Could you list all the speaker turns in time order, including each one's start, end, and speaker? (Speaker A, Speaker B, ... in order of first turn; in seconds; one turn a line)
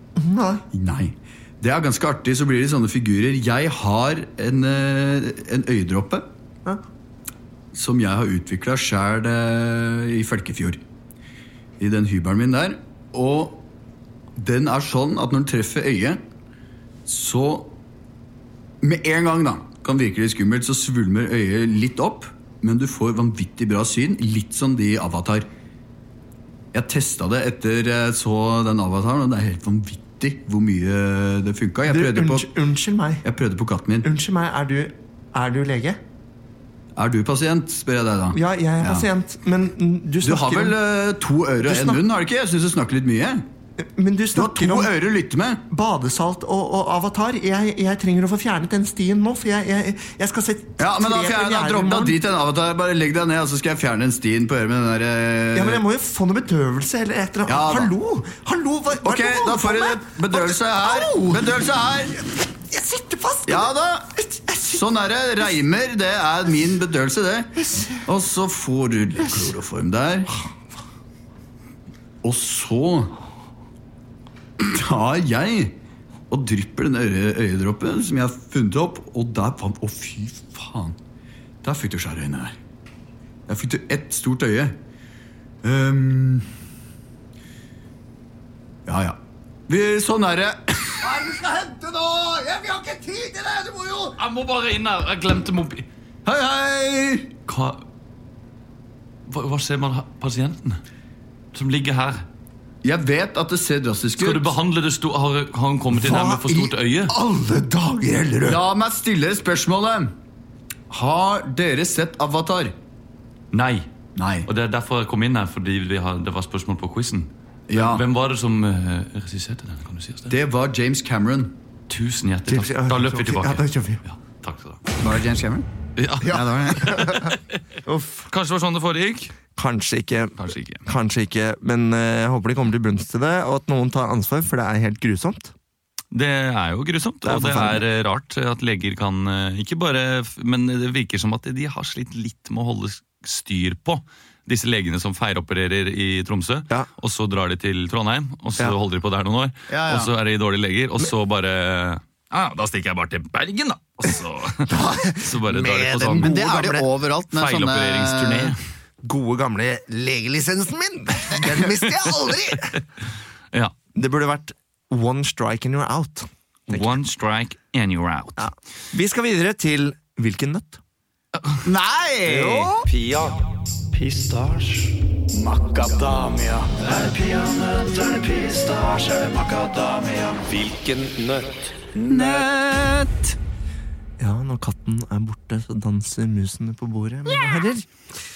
Speaker A: 0.1-0.6
Speaker B: 0.7-6.2
Speaker B: 7.7-10.8
Speaker B: 11.8-13.6
Speaker B: 14.3-16.2
Speaker B: 17.1-17.8
Speaker B: 18.8-25.5
Speaker B: 26.7-32.5
Speaker A: 31.9-33.2
Speaker B: 33.2-34.1
Speaker A: 34.0-36.0
Speaker B: 37.0-39.1
Speaker A: 38.3-40.8
Speaker B: 40.2-43.4
Speaker A: 41.6-42.0
Speaker A: 43.8-44.9
Speaker B: 44.3-45.6
Speaker A: 45.7-52.2
Speaker B: 50.8-55.8
Speaker A: 55.5-61.5
Speaker B: 57.5-57.9
Speaker B: 59.0-62.3
Speaker A: 62.6-64.9
Speaker B: 63.5-64.1
Speaker B: 64.7-70.3
Speaker A: 67.5-68.1
Speaker A: 69.2-69.5
Speaker B: 72.2-73.2
Speaker B: 74.6-75.8
Speaker B: 76.3-81.0
Speaker B: 81.6-82.5
Speaker B: 83.5-84.8
Speaker B: 85.6-86.5
Speaker B: 88.8-94.1
Speaker C: 94.2-95.8
Speaker B: 96.2-97.3
Speaker C: 97.5-97.8
Speaker C: 99.3-100.8
Speaker C: 101.5-102.2
Speaker B: 102.8-104.5
Speaker C: 104.2-107.1
Speaker A: 105.9-108.6
Speaker B: 108.4-110.1
Speaker B: 110.9-112.7
Speaker C: 113.5-113.9
Speaker B: 114.2-114.5
Speaker C: 114.5-120.3
Speaker B: 117.7-118.0
Speaker B: 120.3-121.5
Speaker C: 121.9-124.8
Speaker A: 122.5-124.0
Speaker B: 125.0-125.7
Speaker C: 126.0-127.6
Speaker B: 126.2-127.1
Speaker A: 126.3-127.3
Speaker A: 127.8-128.3
Speaker C: 128.3-129.3
Speaker A: 129.6-135.5
Speaker C: 130.4-130.8
Speaker C: 136.1-156.4
Speaker A: 137.2-137.8
Speaker B: 149.7-150.1
Speaker A: 154.7-156.8
Speaker B: 156.2-158.5
Speaker C: 157.3-158.6
Speaker A: 159.0-162.8
Speaker C: 161.9-162.8
Speaker A: 163.9-167.0
Speaker C: 166.7-168.5
Speaker A: 168.4-170.8
Speaker C: 171.4-171.6
Speaker B: 171.6-172.9
Speaker A: 172.3-172.7
Speaker D: 172.9-174.9
Speaker B: 175.3-176.9
Speaker D: 176.8-181.7
Speaker B: 181.9-183.3
Speaker A: 184.2-188.2